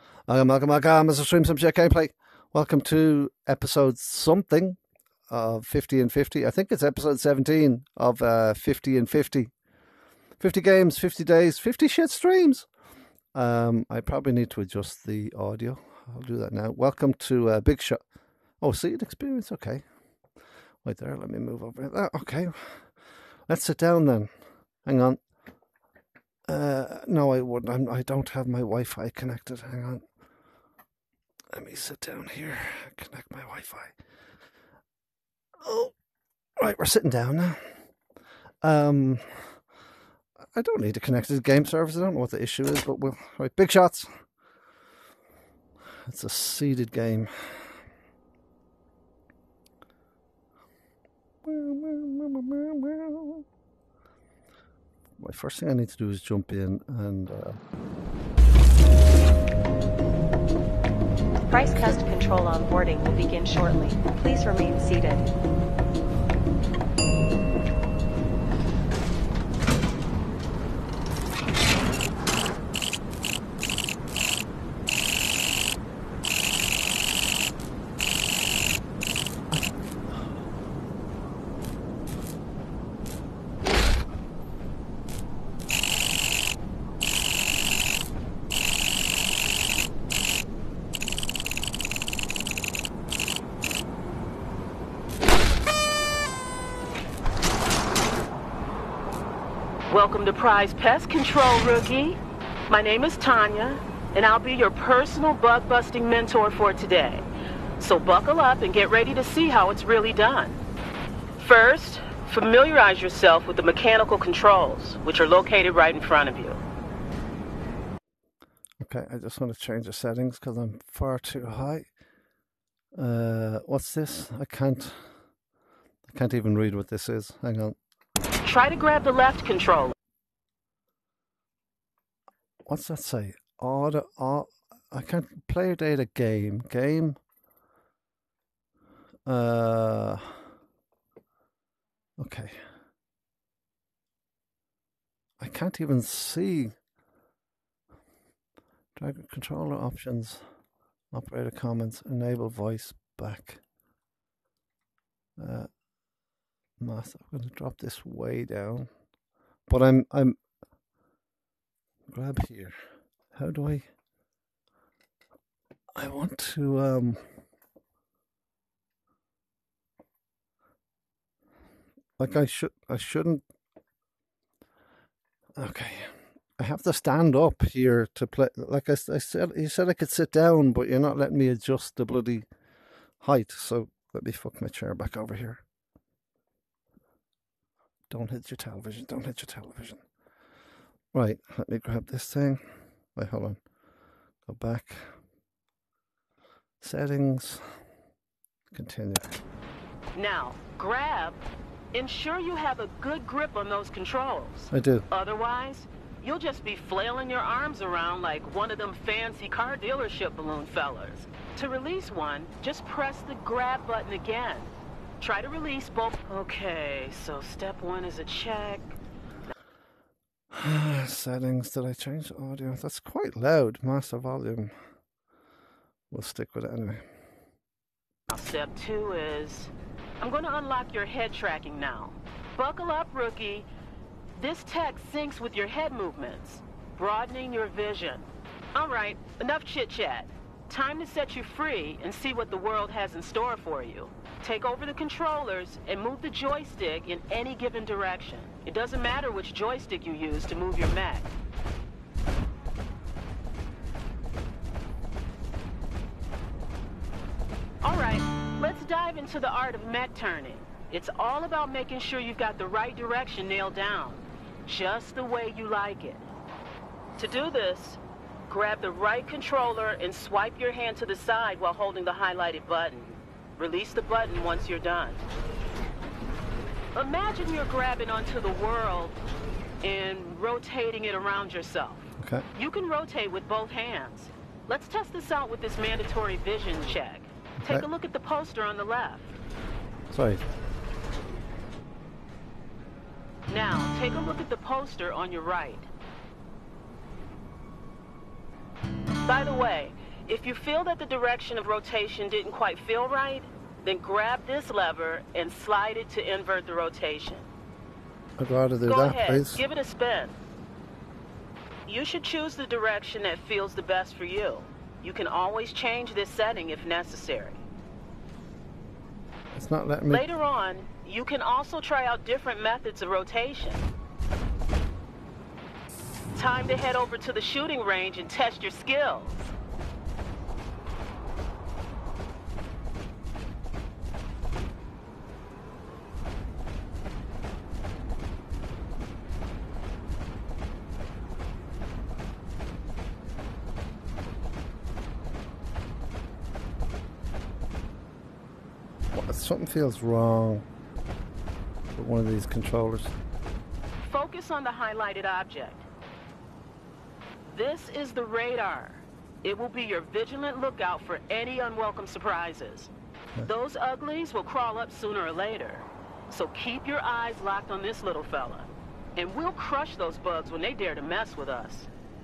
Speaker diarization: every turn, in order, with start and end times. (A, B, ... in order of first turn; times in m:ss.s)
0:00.3-0:09.5 A
0:10.4-0:12.7 A
0:13.3-0:18.0 A
0:18.6-0:19.8 A
0:20.8-0:23.0 A
0:23.5-0:24.3 A
0:24.8-0:25.2 A
0:26.5-0:30.0 A
0:31.5-0:34.0 A
0:35.6-0:36.0 A
0:36.6-0:37.8 A
0:38.6-0:39.6 A
0:40.6-0:44.2 A
0:46.0-0:47.8 A
0:51.4-0:53.4 A
0:55.2-0:57.6 A
1:01.5-1:05.3 B
1:39.9-1:47.3 C
1:47.8-1:50.6 C
1:51.4-1:56.6 C
1:58.8-2:01.9 A
2:03.0-2:05.1 A
2:06.0-2:07.8 A
2:08.4-2:09.9 C
2:12.7-2:17.2 A
2:19.2-2:20.5 A
2:22.2-2:22.6 A
2:25.4-2:26.8 A
2:29.0-2:30.5 A
2:31.1-2:33.6 A
2:35.4-2:35.7 A
2:36.8-2:38.9 A
2:39.7-2:40.4 A
2:42.1-2:42.8 A
2:43.3-2:43.9 A
2:45.9-2:47.3 A
2:52.2-2:53.4 A
2:55.6-3:02.5 A
3:03.2-3:05.6 A
3:08.1-3:10.0 A
3:11.1-3:13.6 A
3:14.4-3:15.2 A
3:16.8-3:17.8 A
3:18.7-3:19.3 A
3:20.1-3:39.0 C
3:24.7-3:25.1 A
3:40.5-3:44.7 A
3:46.1-3:47.0 A
3:48.3-3:53.7 C
3:54.4-4:11.3 C
4:17.8-4:26.3 C
4:27.2-4:35.2 C
4:36.9-4:39.2 C
4:39.8-4:49.4 C
4:42.2-4:42.5 A
4:47.6-4:47.8 A
4:50.1-4:50.4 A
4:53.5-4:55.9 C
4:59.2-5:07.5 C
5:08.4-5:09.6 A
5:08.9-5:10.4 C
5:11.9-5:17.6 C
5:19.5-5:20.2 A
5:20.1-5:23.9 C
5:26.3-5:29.5 C
5:49.1-5:50.6 A
5:51.9-5:53.1 A
5:54.0-5:55.9 C
5:57.5-6:02.9 C
6:03.4-6:11.9 C